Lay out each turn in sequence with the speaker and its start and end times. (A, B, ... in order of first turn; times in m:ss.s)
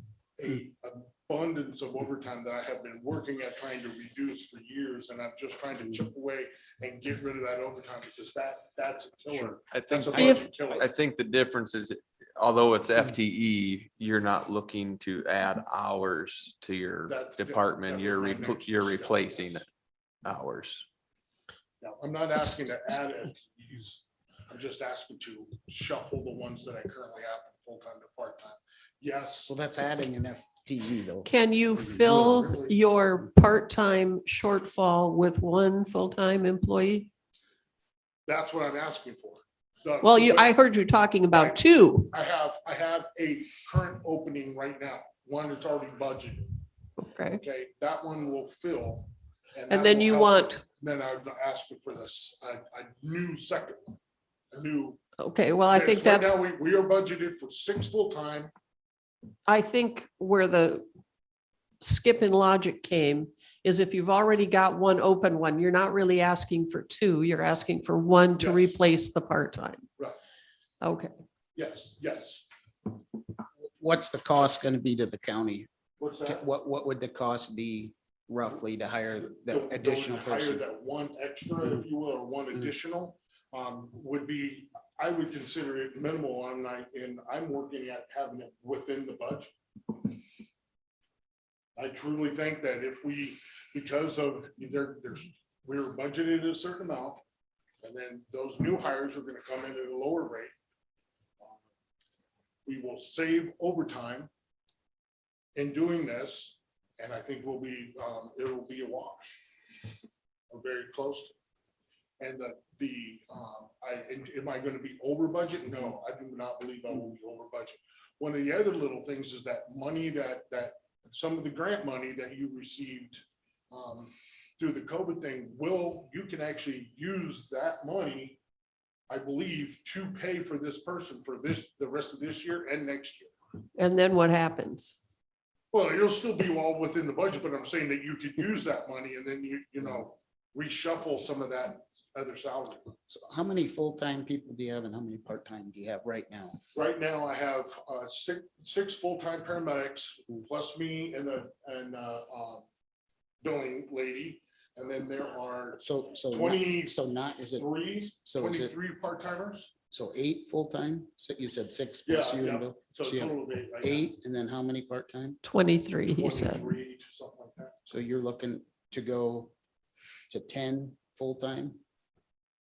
0:00.4-0:10.9 A
0:09.4-0:19.7 B
0:10.1-0:10.4 C
0:17.1-0:19.6 A
0:20.2-0:20.9 B
0:21.8-0:29.5 A
0:29.5-0:32.6 D
0:31.2-0:37.1 C
0:32.0-0:32.8 A
0:38.3-0:40.6 A
0:40.0-0:42.1 C
0:41.3-0:46.6 A
0:47.0-0:47.4 C
0:47.3-0:54.0 A
0:49.7-0:50.6 C
0:54.5-0:55.0 A
0:55.2-0:56.4 C
0:55.7-0:58.5 A
0:59.5-1:00.9 C
1:01.8-1:09.9 C
1:08.4-1:08.8 A
1:10.8-1:11.1 C
1:11.6-1:12.4 A
1:13.8-1:15.7 D
1:16.0-1:16.4 A
1:16.2-1:20.6 D
1:19.4-1:29.5 A
1:31.8-1:37.2 A
1:37.8-1:40.5 A
1:42.6-1:44.3 A
1:45.6-1:49.4 A
1:50.5-1:51.3 A
1:52.2-2:08.4 A
2:09.1-2:13.3 A
2:13.8-2:15.0 C
2:15.7-2:23.0 A
2:23.1-2:26.6 D
2:26.7-2:32.6 A
2:33.4-2:37.0 A
2:35.8-2:38.7 D
2:37.6-2:39.7 A
2:39.9-2:45.4 D
2:42.1-2:44.1 A
2:45.4-2:46.7 C
2:46.1-2:47.8 A
2:47.9-2:49.5 D
2:50.3-2:51.8 D